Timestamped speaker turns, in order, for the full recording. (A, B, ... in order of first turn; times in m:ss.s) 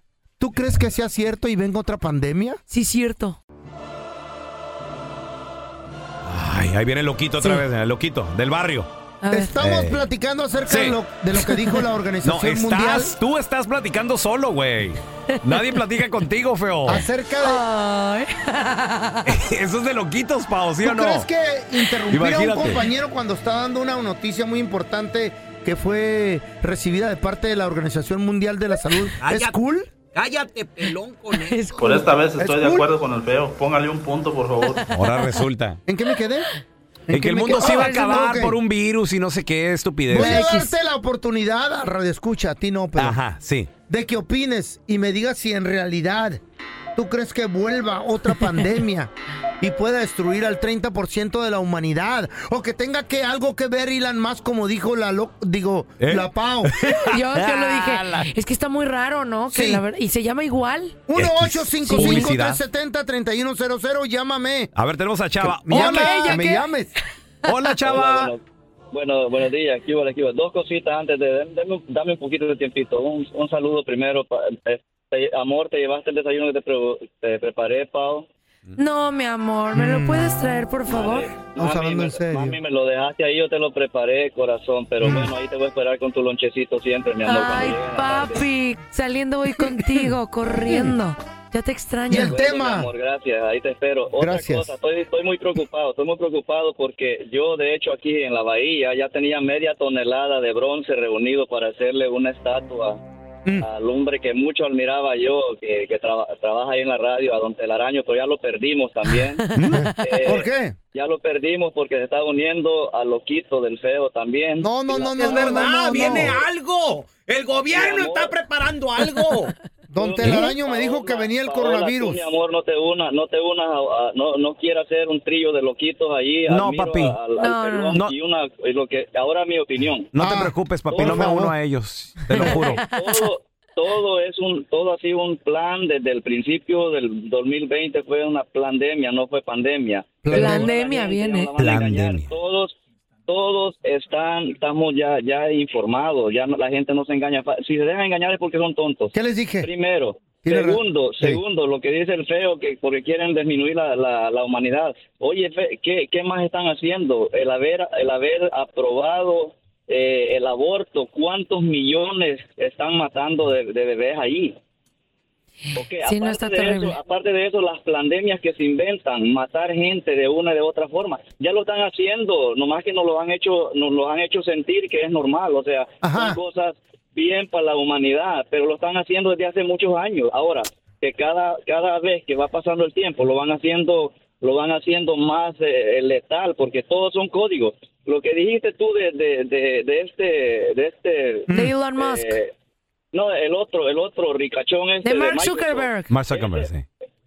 0:00.4-0:02.6 A
0:02.7-0:03.4 B
0:06.2-0:08.9 C
0:09.2-0:09.5 B
0:09.3-0:13.2 A
0:09.6-0:10.0 C
0:10.7-0:11.0 C
0:12.2-0:17.1 C
0:15.3-0:15.8 B
0:16.9-0:17.6 A
0:17.4-0:19.3 B
0:19.2-0:21.3 C
0:20.8-0:29.9 A
0:22.1-0:22.8 C
0:29.2-0:31.9 D
0:31.3-0:32.1 B
0:31.8-0:34.9 E
0:32.4-0:32.9 A
0:34.8-0:35.4 B
0:34.9-0:35.8 C
0:35.9-0:36.5 A
0:37.1-0:38.6 A
0:37.1-0:40.5 C
0:37.5-0:38.2 B
0:40.1-0:43.2 A
0:40.1-0:40.7 B
0:43.0-0:43.7 C
0:43.8-0:46.4 A
0:47.0-0:56.8 A
0:56.0-0:58.3 C
0:57.0-1:01.0 B
0:59.5-0:59.8 A
1:01.1-1:04.7 A
1:01.2-1:02.6 C
1:01.8-1:02.3 B
1:04.8-1:06.4 C
1:05.4-1:06.9 A
1:05.7-1:06.7 B
1:07.4-1:08.3 C
1:07.8-1:08.4 F
1:08.9-1:18.3 F
1:18.8-1:21.3 B
1:19.7-1:20.5 A
1:20.9-1:28.4 F
1:21.6-1:22.6 A
1:25.0-1:25.3 A
1:27.2-1:32.4 B
1:32.1-1:32.9 A
1:32.2-1:43.0 F
1:34.2-1:34.7 A
1:43.6-1:49.4 F
1:49.4-1:50.2 B
1:49.6-1:49.9 C
1:49.7-1:50.8 A
1:50.0-1:56.4 F
1:54.6-1:56.4 A
1:55.0-1:59.5 D
1:57.7-1:58.4 F
1:59.9-2:02.2 A
2:00.0-2:10.1 F
2:06.5-2:07.2 C
2:07.4-2:08.0 B
2:10.1-2:12.8 C
2:10.2-2:11.6 A
2:10.9-2:11.4 F
2:12.3-2:44.6 F
2:12.6-2:13.3 B
2:20.2-2:20.7 A
2:20.3-2:21.5 B
2:21.6-2:22.3 C
2:29.1-2:29.7 A
2:30.4-2:31.4 A
2:45.8-3:12.5 F
2:46.0-2:47.0 B
2:56.0-2:56.4 A
3:11.5-3:12.4 B
3:13.1-3:16.7 F
3:15.0-3:16.1 B
3:16.1-3:16.9 C